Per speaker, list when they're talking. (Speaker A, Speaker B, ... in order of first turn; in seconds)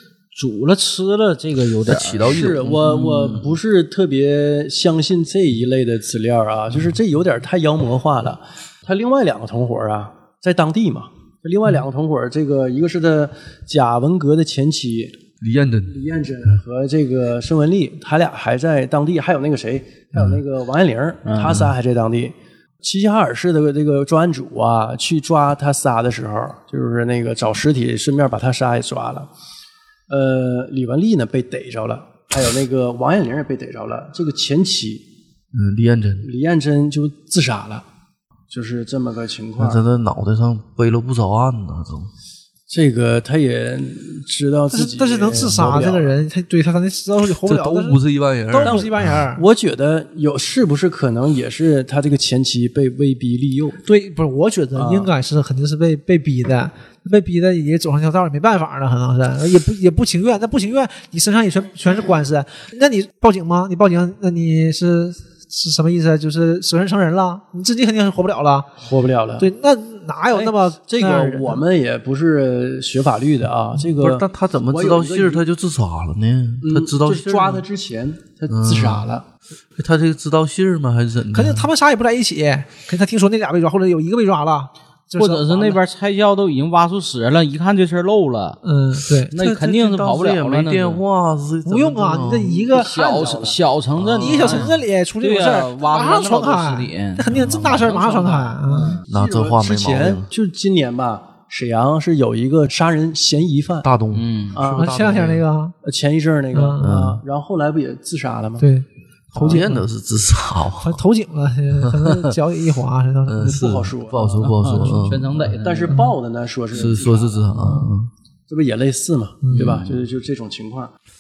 Speaker A: 0.3-3.5, 21.3-21.7, 85.2-88.6, 89.3-91.0, 92.7-99.0, 104.1-104.6, 114.4-116.1
Speaker B: 1.9-3.4, 15.4-16.0, 35.5-36.3, 39.6-42.1, 47.4-49.1, 73.9-77.7, 78.5-79.1, 79.8-81.7, 89.3-92.7, 94.0-94.7, 99.1-100.3, 103.8-105.5, 106.8-107.2, 109.3-111.0, 111.8-112.3, 113.3-115.5, 116.7-118.1, 119.5-119.9
Speaker C: 2.2-15.2, 15.9-29.3, 30.1-35.1, 36.2-37.9, 38.5-39.8, 42.7-46.1, 48.6-53.8, 54.8-55.1, 68.8-69.5, 70.3-75.4, 76.6-79.3, 92.5-93.6, 98.0-103.9, 104.5-105.2, 105.8-108.7, 113.4-114.5, 115.6-117.5, 118.5-120.9
Speaker D: 44.7-49.5, 53.8-68.7, 69.4-71.6, 81.3-85.8, 88.6-89.3, 91.7-92.9, 94.2-99.0, 104.7-105.8, 106.5-107.0, 108.6-109.9, 110.8-113.7, 114.8-115.1, 117.5-117.9, 119.4-119.8